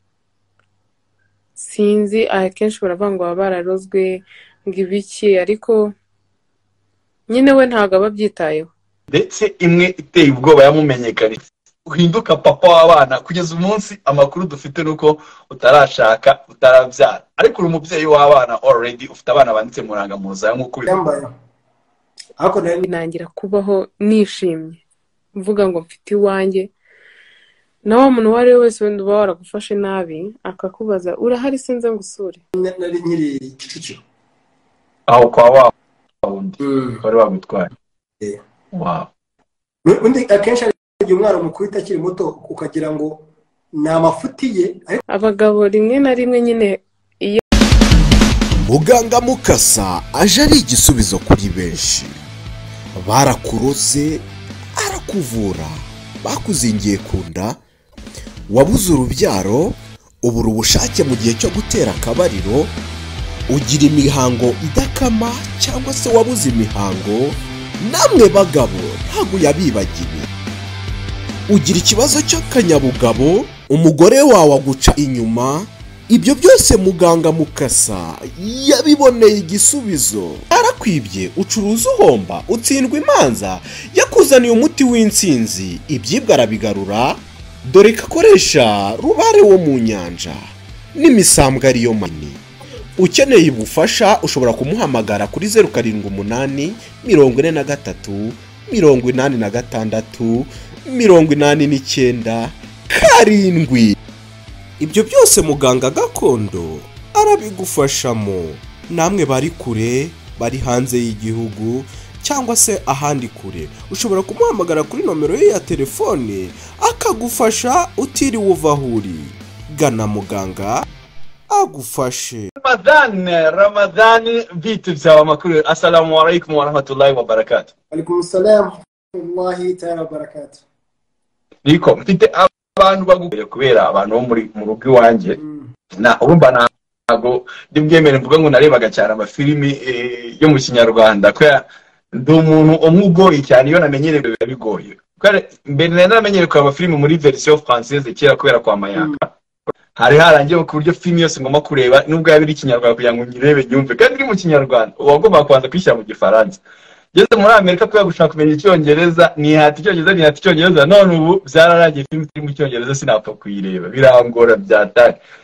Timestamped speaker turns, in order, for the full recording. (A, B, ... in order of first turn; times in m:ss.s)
0:01.6-0:05.9 A
0:07.3-0:08.7 A
0:09.1-0:20.9 B
0:20.9-0:21.3 C
0:22.4-0:22.9 C
0:22.8-0:24.8 A
0:25.3-0:26.7 A
0:27.8-0:32.4 A
0:32.6-0:34.0 C
0:35.1-0:35.7 B
0:36.2-0:37.7 B
0:36.6-0:37.0 C
0:38.7-0:39.1 B
0:39.8-0:45.0 C
0:45.1-0:47.4 A
0:48.6-0:52.2 D
0:53.0-0:57.6 D
0:58.5-1:02.7 D
1:03.5-1:10.3 D
1:11.5-1:32.4 D
1:33.0-1:44.0 D
1:44.8-2:00.8 D
2:01.5-2:02.5 D
2:02.6-2:07.7 B
2:07.9-2:10.6 C
2:11.6-2:15.4 B
2:15.4-2:15.7 C
2:16.0-2:29.3 B
2:30.0-2:36.6 B
2:37.1-2:45.2 B